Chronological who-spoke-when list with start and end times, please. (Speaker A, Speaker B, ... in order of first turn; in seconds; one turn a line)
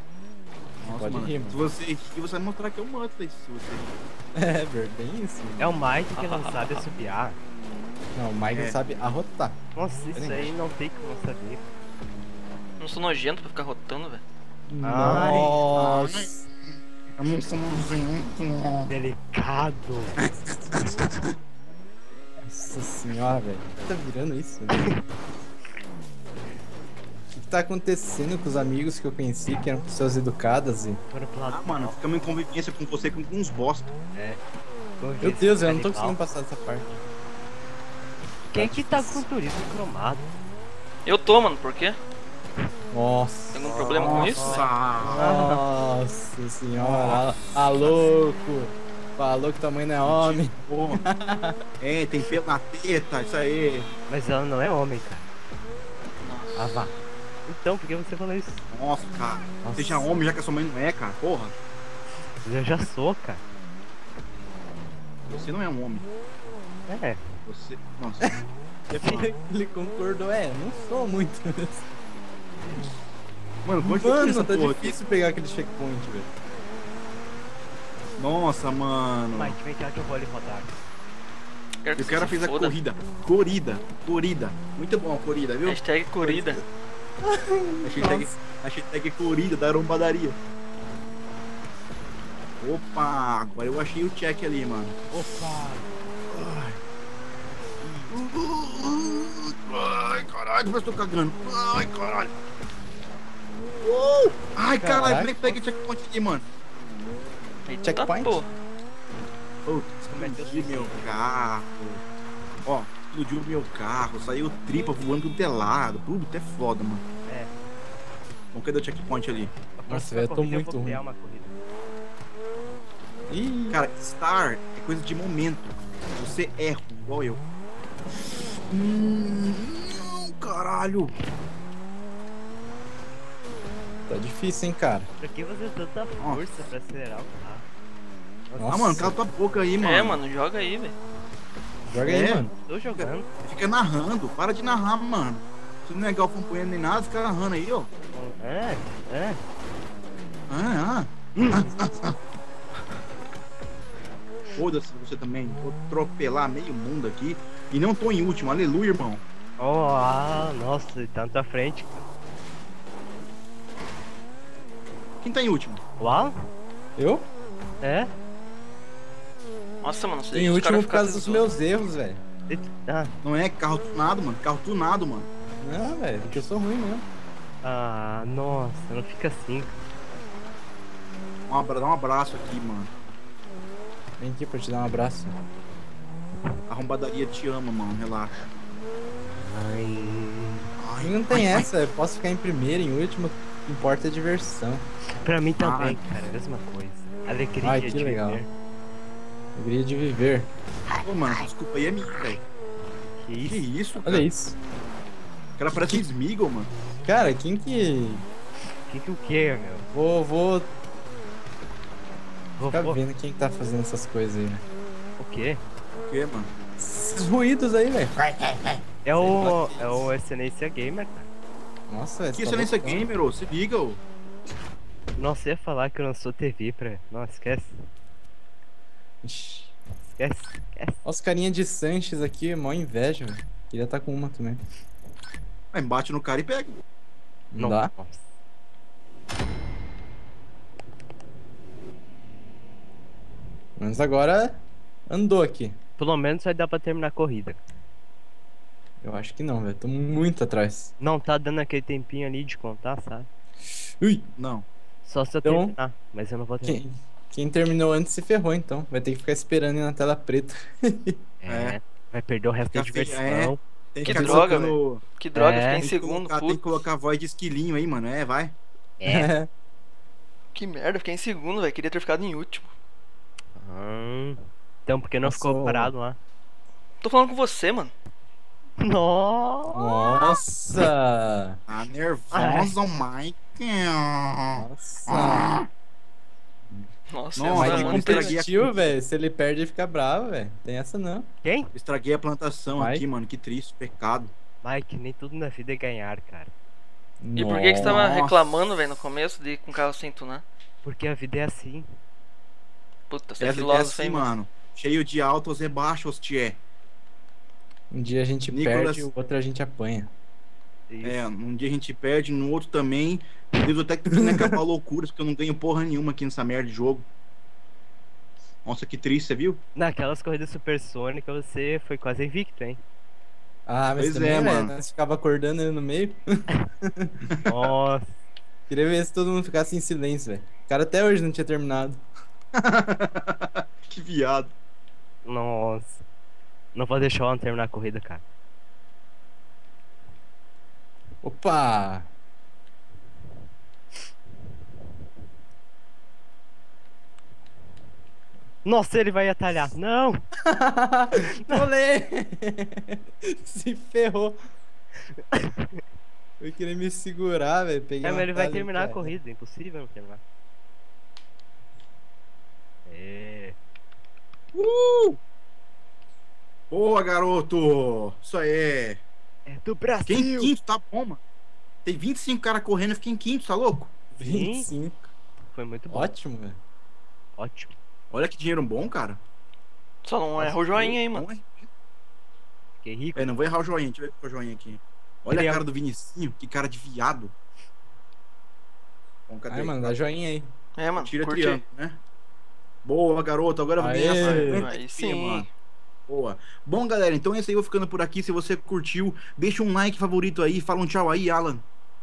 Speaker A: 0.8-4.0
Speaker B: 0.8-1.6
Speaker B: 4.3-5.8
Speaker C: 5.6-7.4
Speaker D: 6.2-6.8
Speaker B: 8.2-9.6
Speaker A: 8.5-8.8
Speaker C: 9.8-11.7
Speaker B: 10.2-10.5
Speaker D: 12.8-14.2
Speaker B: 14.7-16.2
Speaker C: 14.8-16.2
Speaker A: 15.0-18.9
Speaker C: 18.9-20.3
Speaker A: 20.2-21.4
Speaker B: 22.5-24.9
Speaker B: 27.3-31.0
Speaker C: 31.1-32.0
Speaker A: 31.5-34.0
Speaker C: 34.1-34.4
Speaker C: 35.0-36.2
Speaker B: 35.2-37.0
Speaker C: 38.5-40.4
Speaker B: 38.5-39.3
Speaker D: 41.1-42.0
Speaker B: 42.9-44.4
Speaker D: 43.5-44.7
Speaker C: 43.8-45.6
Speaker A: 44.0-45.3
Speaker B: 45.0-51.6
Speaker A: 46.8-47.5
Speaker A: 50.0-51.0
Speaker A: 51.8-53.9
Speaker C: 54.1-55.2
Speaker D: 56.2-56.9
Speaker C: 56.6-57.0
Speaker C: 57.5-58.6
Speaker A: 58.7-61.5
Speaker C: 59.6-60.1
Speaker C: 62.4-63.4
Speaker A: 65.3-66.1
Speaker C: 66.9-67.2
Speaker A: 67.5-68.3
Speaker A: 68.9-69.3
Speaker B: 69.0-71.8
Speaker A: 73.6-75.0
Speaker B: 73.8-76.3
Speaker A: 78.2-79.6
Speaker C: 79.3-80.8
Speaker D: 81.8-82.8
Speaker A: 82.0-86.6
Speaker D: 85.6-86.6
Speaker B: 87.2-88.3
Speaker A: 87.8-90.4
Speaker A: 92.6-95.0
Speaker C: 95.1-95.9
Speaker A: 96.3-96.8
Speaker A: 97.8-102.3
Speaker A: 103.8-106.5
Speaker B: 104.8-105.3
Speaker D: 107.7-108.5
Speaker B: 107.8-108.4
Speaker A: 109.7-112.0
Speaker C: 110.1-111.0
Speaker A: 112.7-117.0
Speaker C: 117.3-117.5
Speaker A: 118.5-119.5
Speaker C: 119.8-121.5
Speaker B: 119.9-121.0
Speaker B: 123.3-123.8
Speaker A: 123.7-127.4
Speaker A: 128.7-131.1
Speaker B: 134.1-135.1
Speaker C: 135.2-137.7
Speaker C: 138.5-138.9
Speaker B: 138.6-139.2
Speaker A: 138.7-140.2
Speaker D: 139.8-140.9
Speaker B: 141.9-142.5
Speaker A: 142.0-147.9
Speaker C: 142.3-143.3
Speaker C: 148.1-149.4
Speaker A: 150.5-152.2
Speaker C: 151.4-151.7
Speaker A: 154.6-159.2
Speaker C: 159.6-162.0
Speaker A: 165.2-165.8
Speaker C: 166.0-166.4
Speaker B: 167.0-167.3
Speaker C: 167.8-168.1
Speaker D: 169.8-171.5
Speaker B: 170.3-172.2
Speaker C: 172.5-173.1
Speaker A: 173.2-175.3
Speaker B: 175.6-177.1
Speaker C: 176.2-176.6
Speaker C: 177.6-179.8
Speaker A: 181.5-182.9
Speaker B: 184.2-185.4
Speaker A: 186.7-188.4
Speaker C: 189.3-190.7
Speaker A: 190.8-191.7
Speaker B: 191.0-194.8
Speaker C: 195.2-198.5
Speaker A: 195.6-196.0
Speaker B: 197.6-198.4
Speaker B: 199.6-200.5
Speaker A: 201.0-202.4
Speaker C: 203.2-203.7
Speaker A: 203.4-204.3
Speaker B: 204.0-204.6
Speaker A: 205.6-206.7
Speaker B: 207.1-208.2
Speaker C: 208.8-209.9
Speaker B: 209.9-210.7
Speaker C: 212.6-213.0
Speaker B: 212.7-214.6
Speaker C: 215.2-215.6
Speaker A: 216.1-216.5
Speaker B: 216.8-218.2
Speaker C: 219.1-221.3
Speaker B: 219.2-219.9
Speaker A: 219.3-220.0
Speaker B: 221.9-223.1
Speaker A: 222.3-224.0
Speaker C: 225.2-227.8
Speaker B: 229.2-229.7
Speaker C: 230.1-231.0
Speaker B: 231.0-234.6
Speaker A: 235.7-236.8
Speaker B: 237.5-237.9
Speaker C: 237.6-238.3
Speaker B: 243.8-245.8
Speaker C: 246.0-247.6
Speaker B: 249.0-250.9
Speaker C: 251.0-253.3
Speaker B: 254.0-254.3
Speaker A: 254.4-254.7
Speaker C: 255.0-256.8
Speaker B: 255.4-255.8
Speaker B: 256.6-261.2
Speaker C: 261.4-263.6
Speaker A: 261.5-261.8
Speaker A: 262.7-265.0
Speaker B: 264.1-264.4
Speaker D: 264.1-266.8
Speaker C: 265.4-265.9
Speaker A: 265.8-268.6
Speaker C: 269.0-269.3
Speaker B: 269.1-269.5
Speaker D: 270.6-272.7
Speaker C: 273.6-276.2
Speaker B: 275.2-275.9
Speaker D: 277.0-277.9
Speaker C: 278.8-280.1
Speaker B: 279.7-281.6
Speaker A: 281.7-285.7
Speaker C: 282.3-282.8
Speaker B: 284.6-285.5
Speaker D: 287.1-288.3
Speaker A: 287.4-289.0
Speaker B: 287.5-291.3
Speaker C: 291.4-291.7
Speaker A: 291.7-294.3
Speaker B: 292.7-293.0
Speaker C: 294.6-296.5
Speaker B: 297.2-298.0
Speaker D: 297.4-300.4
Speaker A: 297.8-298.5
Speaker C: 300.8-301.9
Speaker D: 303.1-304.3
Speaker A: 303.4-306.6
Speaker B: 307.9-310.1
Speaker A: 308.5-309.1
Speaker C: 310.9-311.3
Speaker A: 311.0-317.1
Speaker B: 314.1-314.5
Speaker A: 318.6-319.6
Speaker C: 319.8-322.8
Speaker B: 323.7-326.2
Speaker A: 324.0-324.7
Speaker C: 327.5-328.1
Speaker B: 328.7-332.0
Speaker A: 332.6-334.5
Speaker C: 335.2-336.0
Speaker C: 336.7-338.2
Speaker B: 341.2-342.1
Speaker C: 348.6-350.2
Speaker B: 350.5-354.4
Speaker C: 355.3-355.8
Speaker B: 356.4-359.1
Speaker C: 358.0-360.2
Speaker C: 362.9-363.6
Speaker A: 364.5-365.2
Speaker A: 366.7-369.0
Speaker C: 369.5-370.5
Speaker A: 370.1-371.2
Speaker A: 371.9-373.9
Speaker B: 374.2-375.0
Speaker C: 374.2-374.7
Speaker C: 375.5-376.1
Speaker B: 375.9-376.6
Speaker C: 377.4-377.8
Speaker A: 378.1-379.2
Speaker D: 380.0-381.3
Speaker A: 380.4-381.7
Speaker C: 382.8-383.3
Speaker A: 383.1-387.3
Speaker C: 385.3-385.6
Speaker A: 389.3-390.0
Speaker B: 389.5-390.5
Speaker D: 390.8-391.6
Speaker A: 391.0-392.0
Speaker A: 392.8-395.5
Speaker B: 393.8-394.7
Speaker D: 394.2-395.5
Speaker A: 396.1-401.6